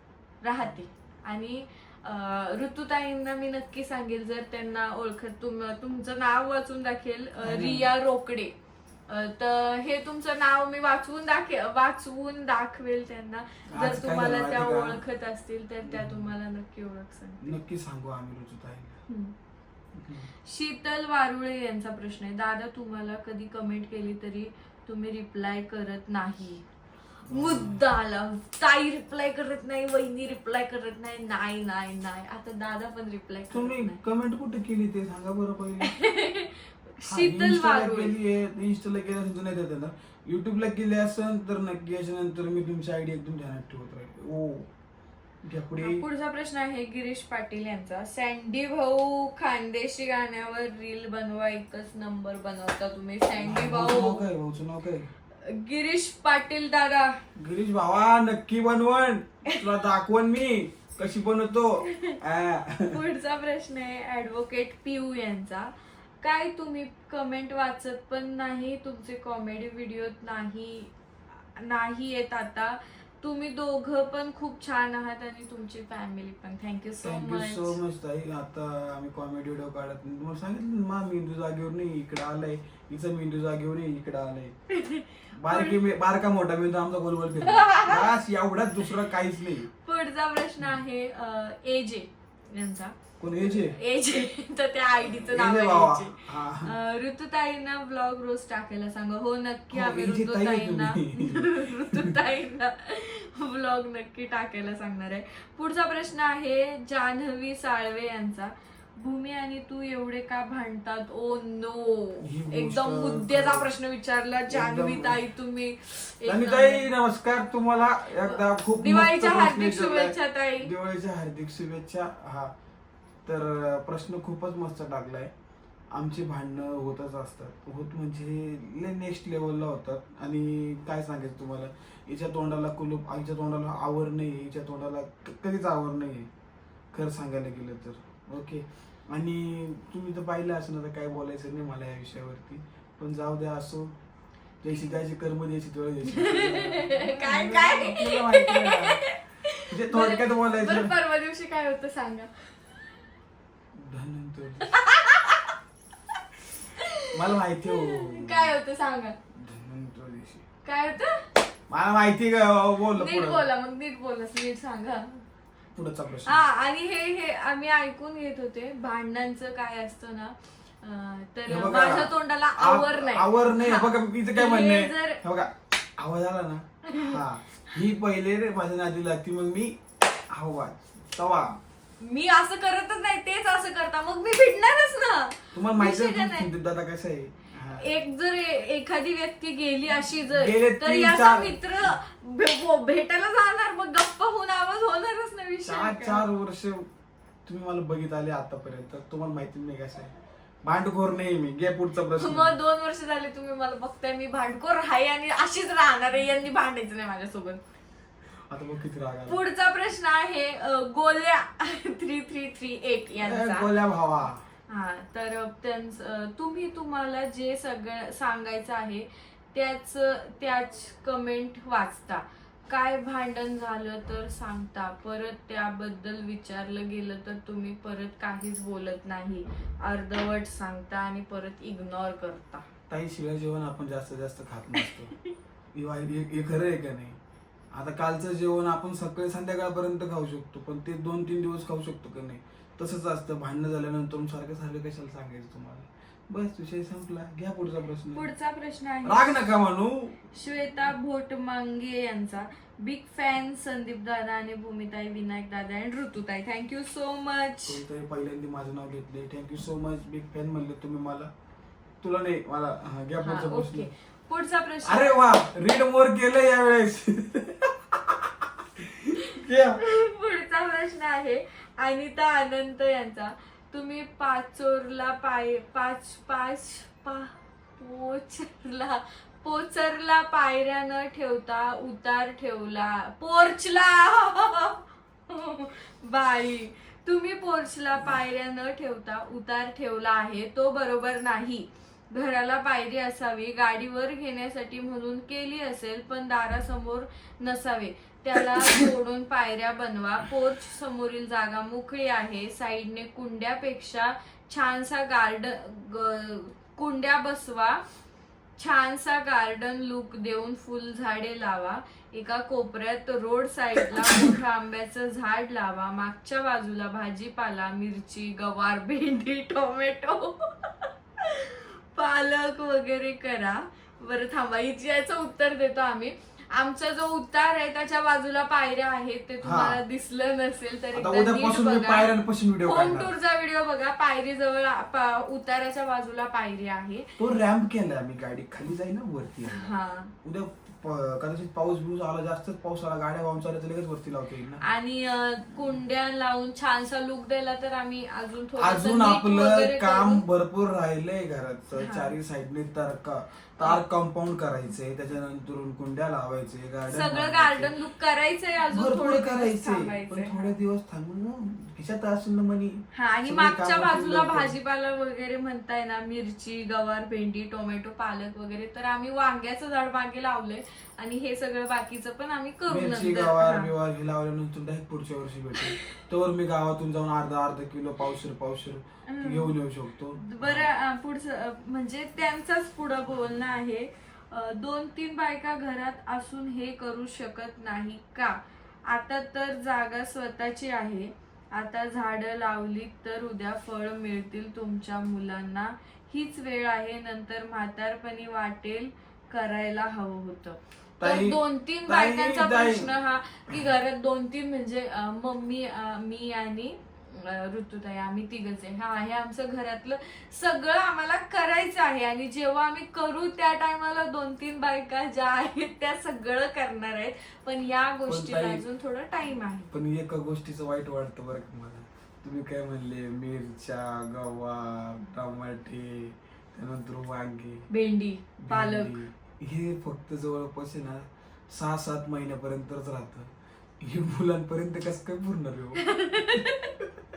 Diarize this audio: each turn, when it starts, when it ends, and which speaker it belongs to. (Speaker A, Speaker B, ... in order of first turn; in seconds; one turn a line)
Speaker A: 0.4-8.5
Speaker B: 7.4-7.9
Speaker A: 9.1-17.5
Speaker B: 13.7-15.0
Speaker B: 15.8-16.3
Speaker B: 17.4-19.0
Speaker A: 19.1-19.4
Speaker B: 19.9-20.3
Speaker A: 20.4-26.6
Speaker B: 27.3-27.8
Speaker A: 27.3-34.0
Speaker B: 33.5-35.9
Speaker A: 35.8-38.1
Speaker B: 37.0-44.7
Speaker B: 45.4-46.0
Speaker A: 45.8-54.2
Speaker B: 53.4-55.1
Speaker A: 55.4-57.2
Speaker B: 57.4-63.0
Speaker A: 61.8-62.2
Speaker A: 62.9-77.8
Speaker B: 77.0-84.6
Speaker A: 84.7-85.8
Speaker B: 85.3-89.7
Speaker A: 87.4-88.1
Speaker A: 89.8-116.9
Speaker B: 93.2-93.8
Speaker B: 95.0-96.8
Speaker B: 99.7-102.2
Speaker B: 112.2-113.7
Speaker B: 114.5-115.2
Speaker B: 116.3-122.5
Speaker A: 118.2-120.7
Speaker B: 123.3-125.3
Speaker B: 125.9-136.3
Speaker B: 136.9-143.9
Speaker B: 144.6-149.0
Speaker A: 146.1-153.0
Speaker B: 149.7-150.9
Speaker B: 153.7-154.7
Speaker A: 154.6-155.6
Speaker A: 156.1-159.2
Speaker B: 157.1-158.6
Speaker B: 159.3-160.4
Speaker A: 160.7-161.2
Speaker B: 161.7-163.4
Speaker A: 162.9-165.2
Speaker B: 165.8-166.4
Speaker A: 166.3-175.2
Speaker B: 171.5-181.6
Speaker A: 176.8-177.2
Speaker A: 182.0-186.5
Speaker B: 185.5-187.8
Speaker A: 187.7-196.2
Speaker B: 190.3-191.6
Speaker B: 195.7-196.9
Speaker B: 197.5-202.6
Speaker A: 202.2-207.6
Speaker B: 208.5-209.4
Speaker A: 209.3-213.7
Speaker B: 213.2-214.4
Speaker A: 214.7-232.7
Speaker B: 232.9-235.2
Speaker B: 235.7-237.2
Speaker B: 237.7-248.3
Speaker A: 248.1-249.5
Speaker B: 249.0-250.2
Speaker A: 250.3-257.8
Speaker B: 257.7-261.3
Speaker B: 262.0-263.9
Speaker A: 263.2-265.3
Speaker B: 264.9-269.8
Speaker A: 269.3-307.8
Speaker B: 298.4-298.9
Speaker A: 308.6-332.1
Speaker B: 313.9-314.4
Speaker B: 329.4-329.8
Speaker B: 330.9-333.1
Speaker A: 332.6-337.2
Speaker B: 337.2-339.7
Speaker A: 339.5-340.1
Speaker B: 340.2-344.6
Speaker A: 344.6-350.3
Speaker B: 348.6-357.7
Speaker A: 351.8-352.2
Speaker A: 356.9-360.6
Speaker B: 358.7-364.5
Speaker A: 362.9-373.7
Speaker B: 372.7-380.7
Speaker A: 375.6-375.9
Speaker A: 379.1-379.5
Speaker A: 380.2-419.7
Speaker B: 401.0-402.9
Speaker B: 418.1-418.6
Speaker B: 419.7-427.7
Speaker A: 427.7-429.0
Speaker B: 428.4-436.9
Speaker A: 435.8-436.8